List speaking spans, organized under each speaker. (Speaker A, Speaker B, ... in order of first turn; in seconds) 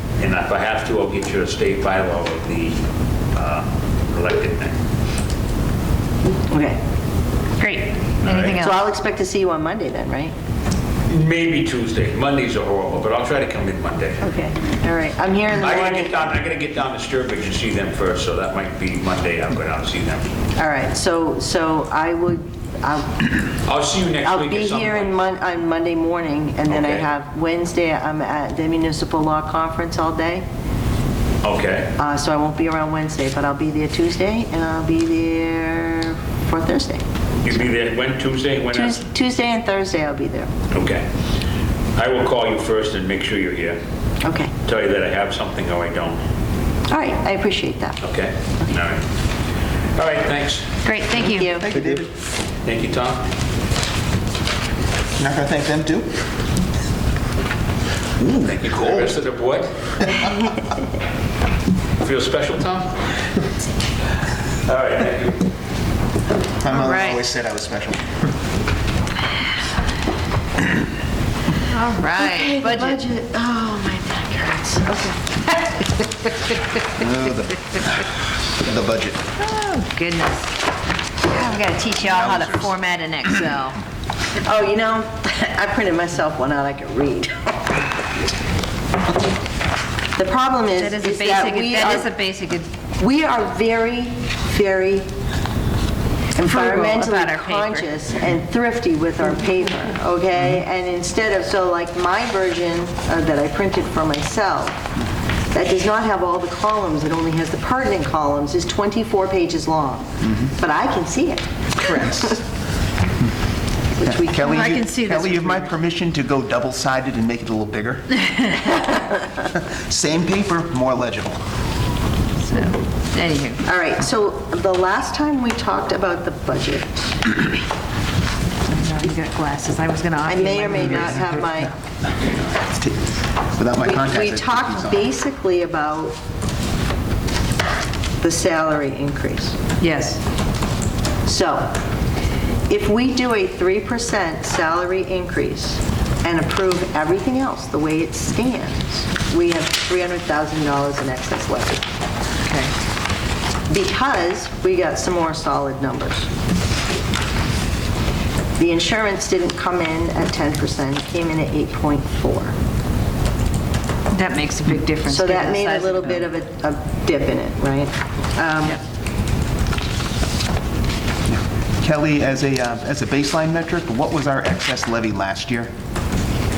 Speaker A: 0.2-2.8, 3.3-4.8, 8.2-8.6, 11.1-14.3, 15.5-20.3, 23.6-25.1, 26.7-27.1, 31.4-31.9, 37.4-39.0, 40.7-41.1, 42.0-43.8, 44.6-46.2, 48.0-49.0, 50.0-50.8, 52.6-53.3, 58.2-60.0, 62.0-63.2, 64.7-65.5
Speaker B: 6.5-6.8, 8.6-10.3, 14.2-16.3, 20.6-23.3, 24.2-30.4, 32.0-37.0, 38.7-40.5, 44.2-44.5, 46.9-48.0, 51.1-51.7, 72.1-75.4, 84.4-87.9, 90.2-92.1, 93.0-95.1, 96.4-104.8, 105.5-112.4, 114.0-114.6, 123.7-127.0, 130.2-131.7, 133.8-136.2, 138.2-139.6, 141.2-141.7, 142.7-151.8, 153.7-156.3, 158.6-162.5, 165.1-168.8
Speaker C: 7.6-8.8, 50.8-51.6, 66.7-67.2, 71.6-73.0, 79.4-80.6, 81.2-83.8, 90.8-92.7, 96.4-97.9, 114.4-115.7, 122.4-123.6, 128.7-131.3, 139.8-140.2, 152.4-152.7, 164.1-166.3
Speaker D: 51.4-52.1, 55.2-56.2, 58.2-59.1, 66.6-68.1, 76.9-79.2, 82.0-82.8, 111.8-112.4, 114.0-118.2, 119.4-121.4, 132.2-135.1, 171.3-175.7